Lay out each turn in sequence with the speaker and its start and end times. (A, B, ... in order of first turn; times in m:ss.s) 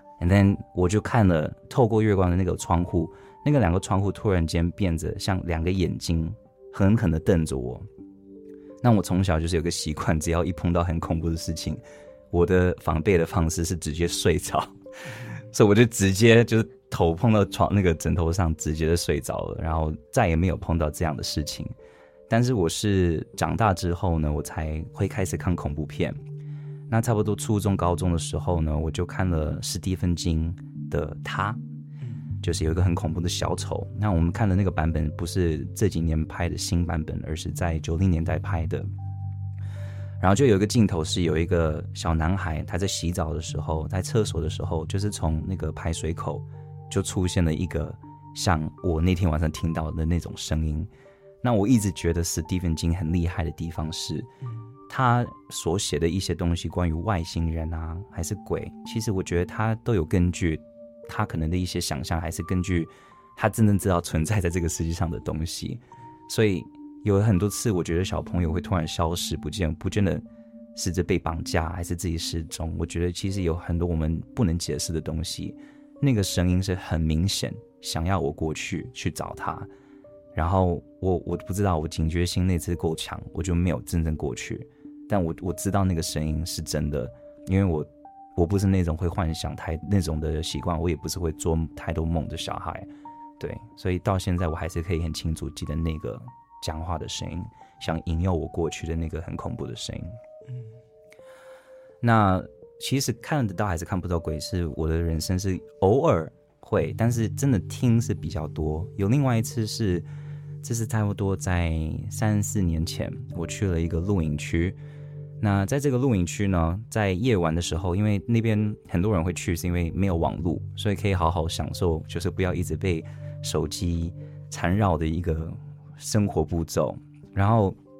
0:00.2-0:07.8 A
0:08.8-0:11.8 A
0:12.3-0:14.7 A
0:15.5-0:21.7 A
0:22.3-0:26.2 A
0:26.9-0:31.6 A
0:32.4-0:38.9 A
0:40.2-0:50.9 A
0:51.4-0:54.3 A
0:54.9-1:19.7 A
1:20.3-1:32.9 A
1:33.4-1:40.1 A
1:42.0-1:50.1 A
1:50.6-1:54.8 A
1:55.4-2:07.8 A